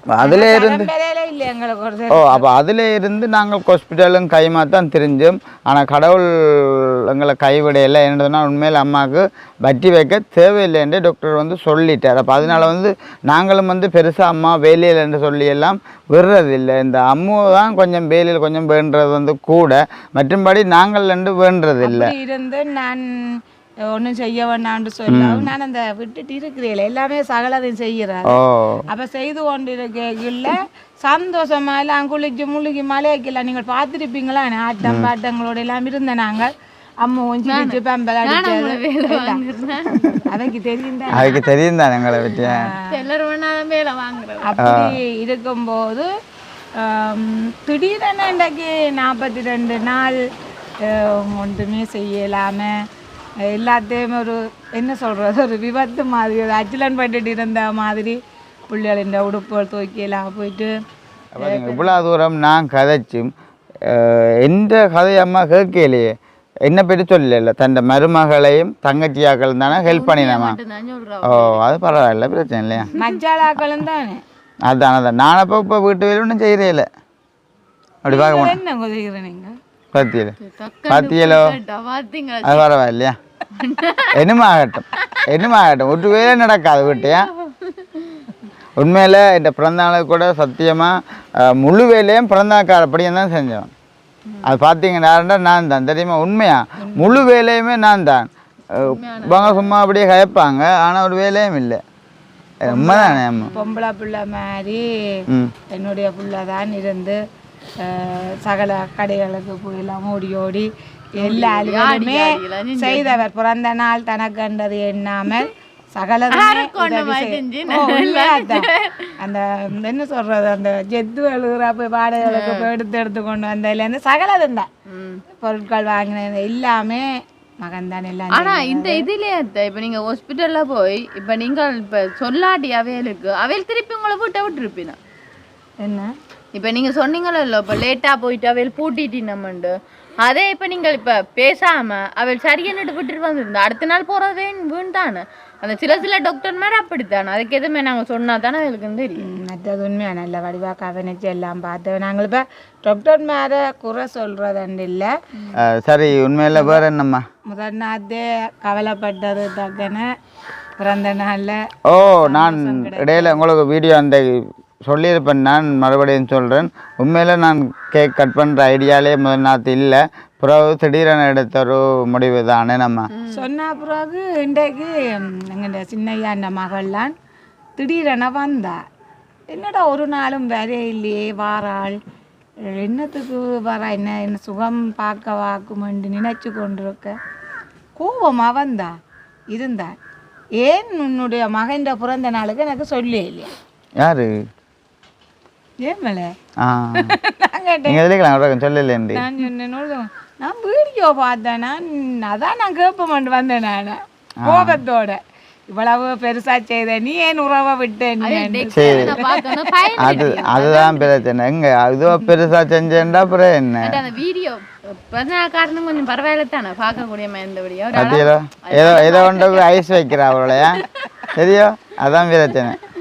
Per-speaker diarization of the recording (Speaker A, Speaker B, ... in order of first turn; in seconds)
Speaker A: 0.1-0.9, 2.1-22.1, 25.1-25.5, 28.3-28.8, 34.8-35.1, 41.1-42.7, 44.6-45.0, 61.3-63.3, 63.8-66.1, 66.7-70.6, 71.2-72.9, 74.7-76.9, 78.0-78.6, 79.9-80.3, 80.9-81.5, 82.4-83.2, 84.1-87.3, 88.8-93.7, 94.4-101.8, 102.6-103.5, 155.6-157.2, 161.9-173.1, 194.0-194.3, 196.6-197.1, 197.9-199.2, 204.4-204.8, 208.7-209.2, 210.0-214.0, 217.9-220.8, 221.3-222.8
Speaker B: 0.2-2.5, 21.8-23.1, 23.9-39.4, 40.2-41.4, 42.4-42.9, 44.4-46.1, 46.8-50.2, 50.8-52.7, 53.5-58.2, 58.7-60.7, 61.4-61.9, 72.9-74.2, 78.1-79.5, 96.8-97.2, 102.6-104.8, 105.7-107.2, 107.8-124.7, 125.3-127.1, 127.6-129.1, 135.8-136.1, 149.2-155.6, 156.5-156.8, 157.5-160.1, 160.8-163.4, 173.3-177.1, 177.8-178.8, 179.5-182.0, 182.7-187.2, 188.0-188.9, 189.5-189.9, 190.6-193.5, 195.8-196.3, 196.9-198.0, 199.1-210.3
Speaker C: 37.5-40.4, 42.9-44.6, 69.7-71.6, 80.4-82.7, 83.5-84.2, 86.8-88.2, 94.3-94.5, 98.8-99.7, 103.3-103.8, 111.2-113.1, 116.3-119.1, 122.2-122.7, 124.9-125.2, 128.3-135.0, 136.5-139.7, 140.2-149.3, 173.1-173.4, 208.2-211.2, 213.8-219.8, 220.5-221.1